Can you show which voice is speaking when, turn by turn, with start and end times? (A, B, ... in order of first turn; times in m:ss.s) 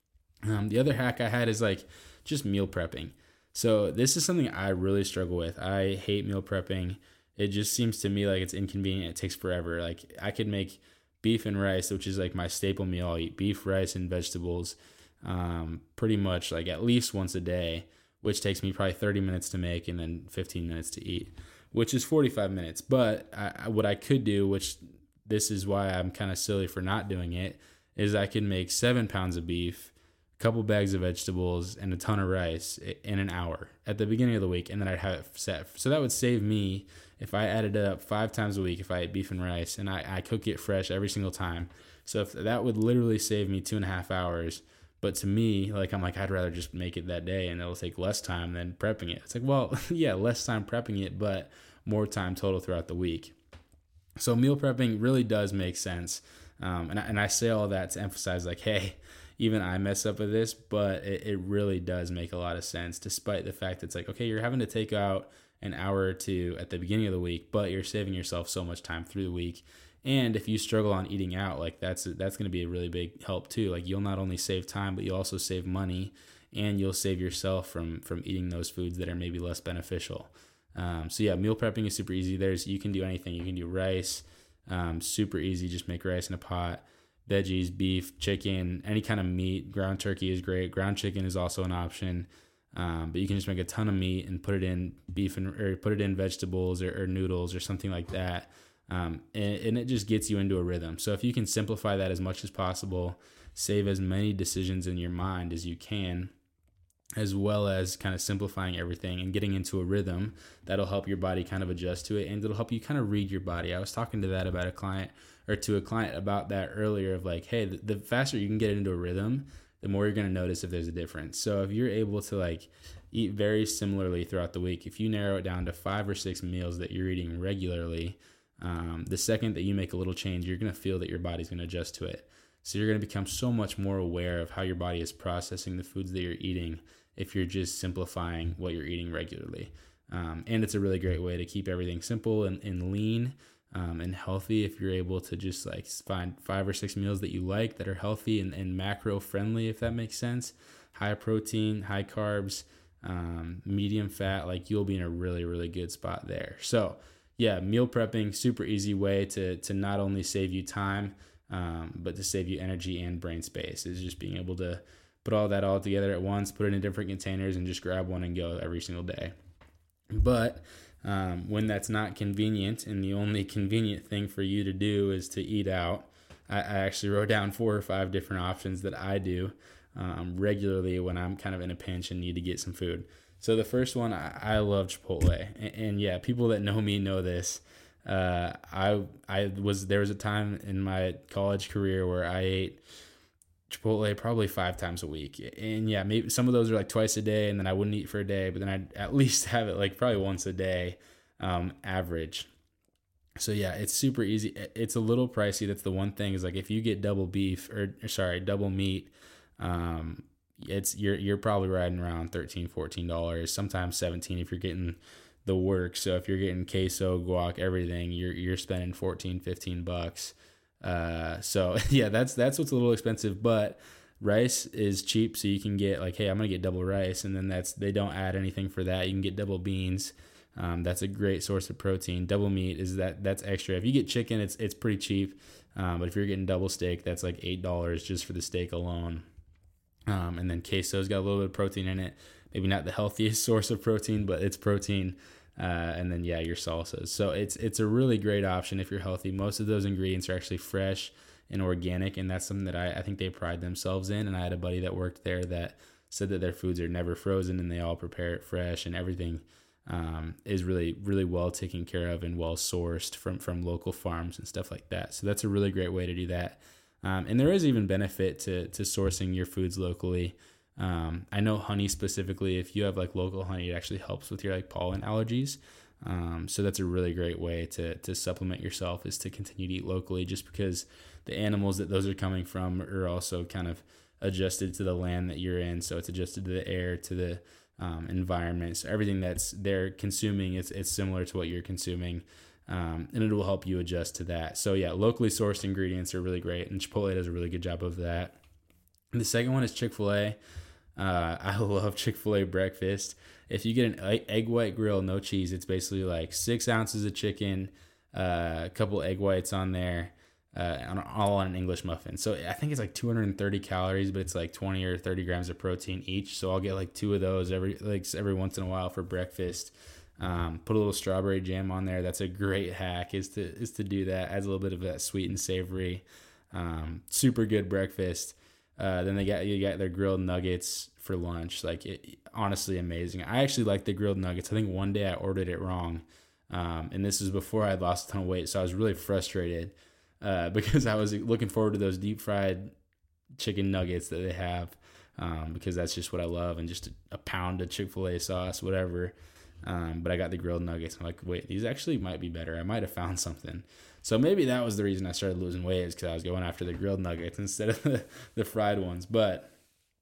0:00.5-0:53.4 A
0:54.2-1:46.3 A
1:47.2-2:49.4 A
2:50.1-3:12.8 A
3:13.7-3:22.5 A
3:23.4-3:59.2 A
4:00.1-4:58.4 A
4:59.1-5:00.4 A
5:01.0-5:42.7 A
5:43.4-5:59.5 A